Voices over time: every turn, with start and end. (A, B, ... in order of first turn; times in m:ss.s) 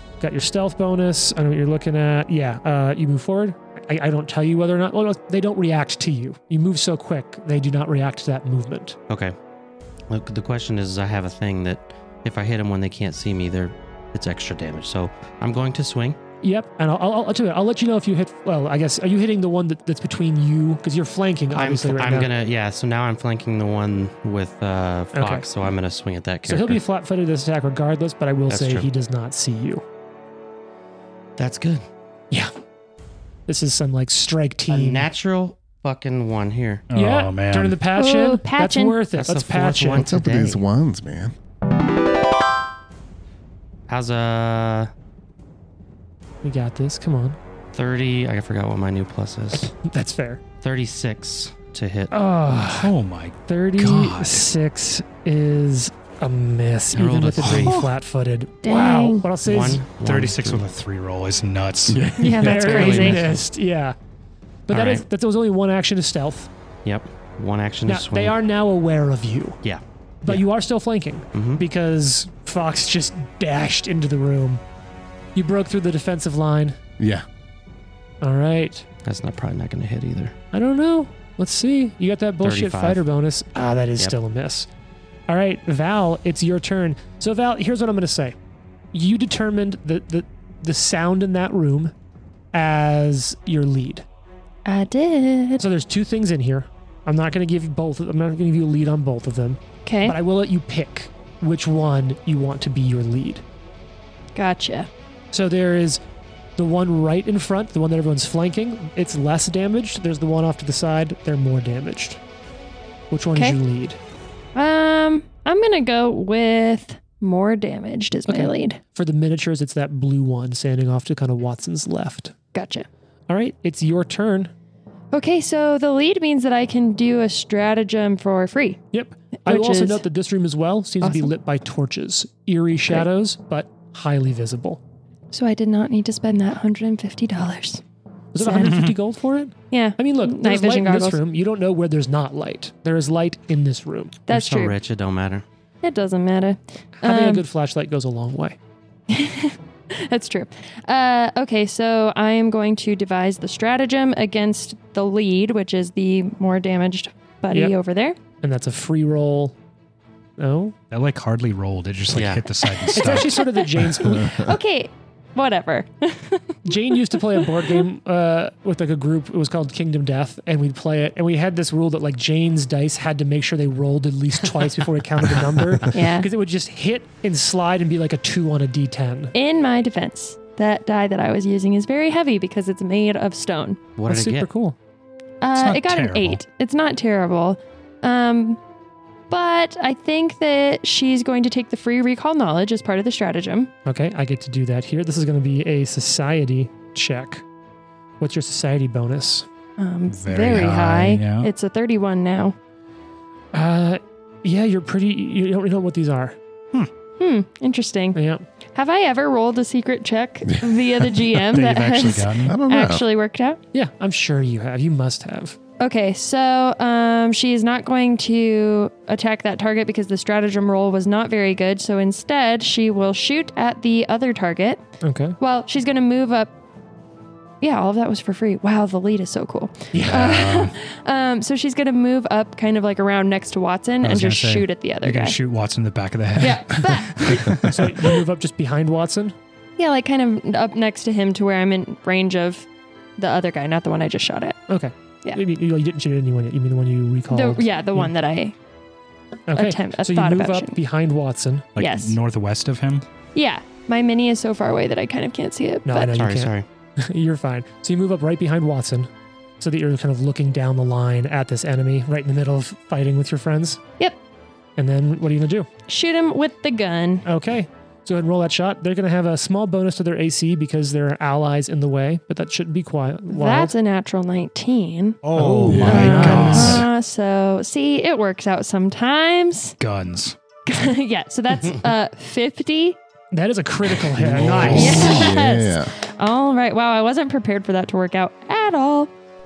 0:00.2-0:09.0 A
0:09.1-0:09.3 B
0:10.1-0:16.2 B
0:16.4-0:22.3 A
0:21.5-0:26.8 B
0:25.1-0:25.4 A
0:26.5-0:29.8 A
0:28.5-0:28.9 B
0:31.4-0:31.8 B
0:33.5-0:35.1 A
0:34.7-0:36.8 B
0:36.9-0:37.8 C
0:36.9-0:40.1 A
0:37.9-0:39.0 D
0:39.1-0:40.6 B
0:39.9-0:41.3 E
0:43.9-0:44.9 B
0:46.4-0:47.4 A
0:47.7-0:49.7 B
0:49.8-0:50.4 A
0:50.6-0:52.1 B
0:52.1-0:52.9 A
0:52.6-0:54.5 C
0:53.5-0:59.9 A
0:56.9-0:57.8 B
0:57.4-0:57.7 C
0:58.6-0:59.3 D
0:59.4-1:00.7 B
1:00.0-1:02.1 C
1:01.9-1:02.5 E
1:02.2-1:03.2 D
1:02.2-1:04.0 A
1:02.4-1:03.4 B
1:04.7-1:06.5 A
1:04.7-1:05.0 B
1:06.8-1:08.4 B
1:07.8-1:09.6 A
1:09.6-1:10.5 B
1:10.2-1:14.6 A
1:11.3-1:11.6 B
1:15.3-1:16.8 A
1:17.0-1:17.2 E
1:18.2-1:18.8 A
1:19.0-1:20.3 B
1:20.5-1:24.7 A
1:22.4-1:23.0 B
1:25.3-1:28.4 A
1:28.9-1:31.9 A
1:32.5-1:34.0 A
1:34.6-1:35.6 D
1:35.6-1:43.4 A
1:39.8-1:40.2 D
1:44.3-1:44.9 D
1:45.3-1:46.0 A
1:46.6-1:52.2 A
1:53.1-1:54.0 A
1:53.3-1:53.6 D
1:54.5-1:58.8 D
1:58.3-2:02.3 A
2:02.5-2:02.8 D
2:03.3-2:04.5 A
2:05.1-2:08.8 D
2:08.9-2:14.8 A
2:09.4-2:10.0 D
2:11.0-2:11.3 D
2:15.3-2:17.8 D
2:18.3-2:24.2 A
2:18.4-2:18.7 D
2:18.6-2:18.9 C
2:19.7-2:21.2 D
2:24.3-2:24.7 D
2:24.3-2:25.4 B
2:25.8-2:27.4 D
2:27.0-2:28.6 A
2:29.1-2:38.2 D
2:38.4-2:39.6 A
2:40.4-2:40.8 A
2:40.9-2:43.4 C
2:42.1-2:42.4 B
2:42.6-2:47.8 D
2:42.9-2:44.4 A
2:44.2-2:44.5 E
2:46.6-2:59.3 A
2:55.9-2:56.3 D
2:59.3-3:03.8 D
3:04.0-3:04.5 B
3:04.1-3:04.8 A
3:05.4-3:08.6 D
3:05.5-3:06.4 C
3:09.3-3:13.7 D
3:13.8-3:17.4 A
3:18.2-3:19.5 A
3:19.8-3:22.6 D
3:20.1-3:21.5 C
3:23.5-3:26.4 A
3:27.2-3:28.2 D
3:28.1-3:28.4 A
3:28.7-3:33.6 D
3:31.4-3:32.6 C
3:32.4-3:33.0 E
3:33.7-3:35.6 A
3:35.8-3:44.8 D
3:45.0-3:45.4 A
3:45.4-3:46.5 D
3:47.6-3:55.4 D
3:49.9-3:50.2 A
3:50.0-3:50.7 C
3:54.0-3:58.0 C
3:56.4-3:57.7 D
3:57.6-3:59.3 A
3:59.8-4:02.7 D
4:03.2-4:04.6 D
4:04.7-4:08.1 A
4:07.3-4:08.6 D
4:09.5-4:11.7 A
4:09.5-4:10.8 D
4:11.8-4:13.0 C
4:11.8-4:12.2 D
4:13.3-4:16.2 D
4:15.8-4:23.8 A
4:16.1-4:16.6 B
4:24.8-4:25.7 A
4:25.9-4:27.3 D
4:27.2-4:33.7 A
4:33.3-4:39.8 D
4:35.2-4:36.8 C
4:35.4-4:36.8 A
4:35.6-4:36.4 E
4:39.8-4:40.4 C
4:40.6-4:43.0 D
4:43.3-4:45.2 A
4:44.1-4:45.1 C
4:44.4-4:45.9 E
4:44.7-4:49.1 D